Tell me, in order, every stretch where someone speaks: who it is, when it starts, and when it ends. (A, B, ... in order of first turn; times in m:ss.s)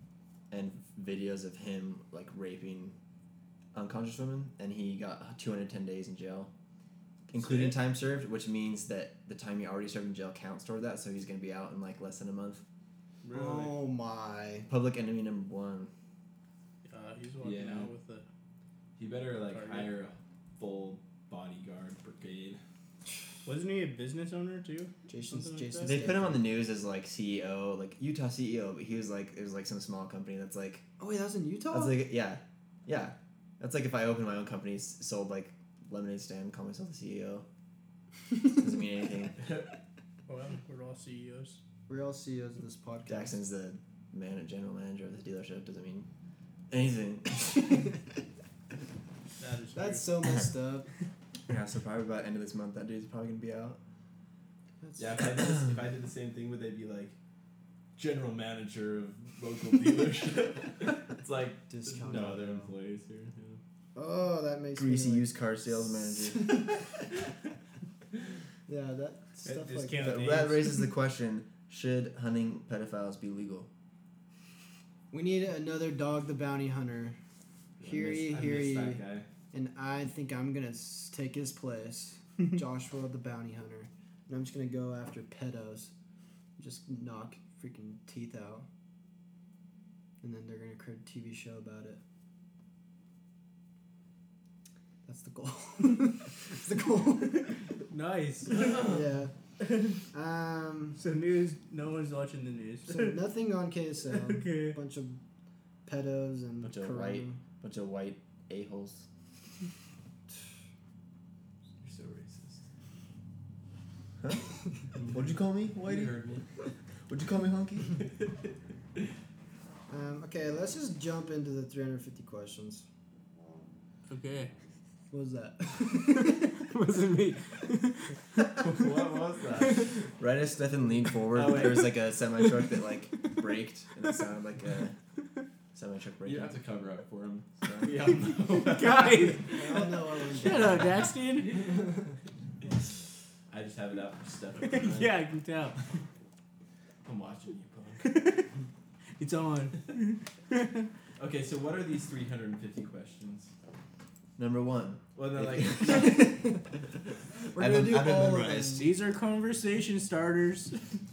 0:00.5-0:03.0 A
0:03.7-0:06.5 A
0:07.3-0:12.6 A
0:07.4-0:07.8 B
0:13.2-0:13.8 B
0:13.3-0:14.7 C
0:14.7-0:15.9 A
0:16.8-0:18.3 B
0:17.4-0:17.9 D
0:19.0-0:22.6 D
0:19.5-0:19.9 B
0:23.4-0:26.0 B
0:25.1-0:26.5 C
0:25.8-0:30.9 A
0:31.0-0:32.0 C
0:31.7-0:37.5 A
0:38.6-0:39.4 A
0:39.4-0:39.7 D
0:40.3-0:41.6 B
0:41.9-0:43.4 C
0:43.1-0:46.1 A
0:46.7-0:47.9 A
0:49.4-0:50.0 B
0:49.8-0:50.9 C
0:51.5-0:53.8 A
0:54.8-0:55.3 C
0:55.0-0:57.2 D
0:58.0-1:03.6 D
1:01.7-1:02.7 C
1:04.0-1:05.3 C
1:04.8-1:06.7 A
1:06.0-1:06.8 C
1:08.7-1:10.2 C
1:09.4-1:10.8 B
1:10.0-1:13.7 A
1:15.1-1:17.2 C
1:17.8-1:19.3 D
1:17.8-1:25.9 C
1:26.6-1:28.7 C
1:30.2-1:32.0 C
1:35.1-1:37.6 C
1:37.9-1:38.9 B
1:38.5-1:39.0 D
1:38.6-1:39.3 C
1:39.6-1:40.0 B
1:40.1-1:41.0 C
1:41.0-1:43.2 B
1:42.9-1:45.2 C
1:44.1-1:44.8 B
1:45.8-1:47.4 C
1:46.6-1:49.1 A
1:51.8-1:52.6 D
1:54.2-1:54.5 A
1:55.0-1:56.4 D
1:55.1-1:56.2 A
1:57.1-1:58.0 A
1:59.9-2:02.8 C
2:04.1-2:04.5 B
2:05.1-2:06.5 C
2:05.9-2:08.4 B
2:08.6-2:10.0 D
2:10.2-2:15.0 A
2:11.3-2:12.0 D
2:12.4-2:13.4 B
2:15.7-2:16.6 A
2:16.2-2:19.4 D
2:17.6-2:18.0 A
2:18.6-2:21.8 B
2:19.5-2:22.1 C
2:23.5-2:25.2 D
2:24.6-2:25.8 B
2:27.0-2:28.1 D
2:28.0-2:28.5 B
2:29.2-2:30.9 B
2:31.2-2:33.5 D
2:34.4-2:36.6 A
2:35.2-2:36.2 D
2:35.9-2:36.6 C
2:37.5-2:38.9 C
2:37.6-2:38.7 A
2:38.5-2:40.8 B